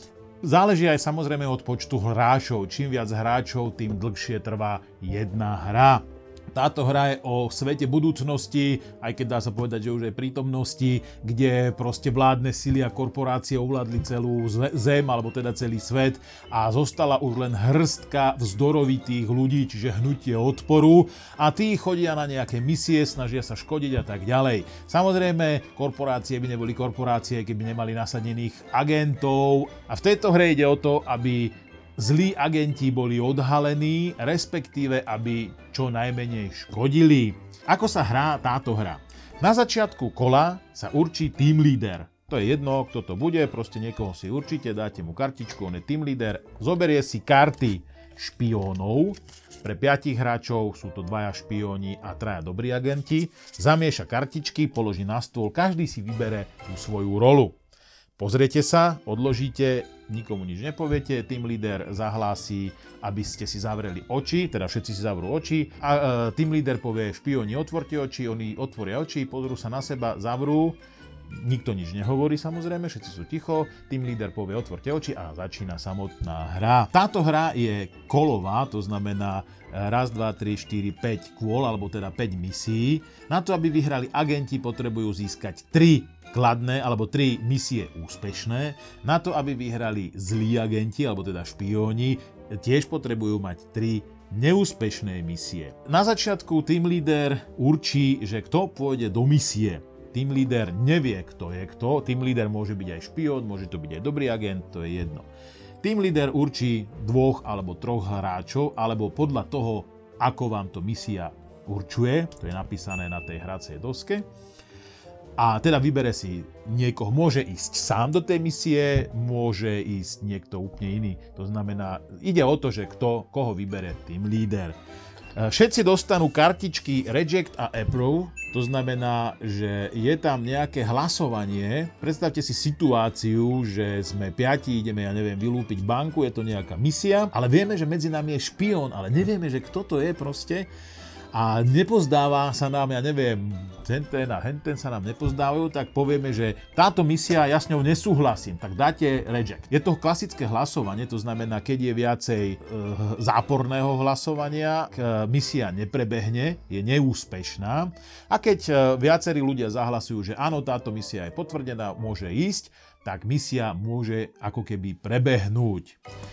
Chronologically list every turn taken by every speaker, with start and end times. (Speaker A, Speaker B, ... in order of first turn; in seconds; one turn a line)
Speaker A: 0.4-57.6
Speaker A: 58.2-70.8
Speaker A: 71.3-105.3
Speaker A: 105.8-114.2
Speaker A: 115.4-124.8
Speaker A: 125.3-140.7
Speaker A: 141.3-166.0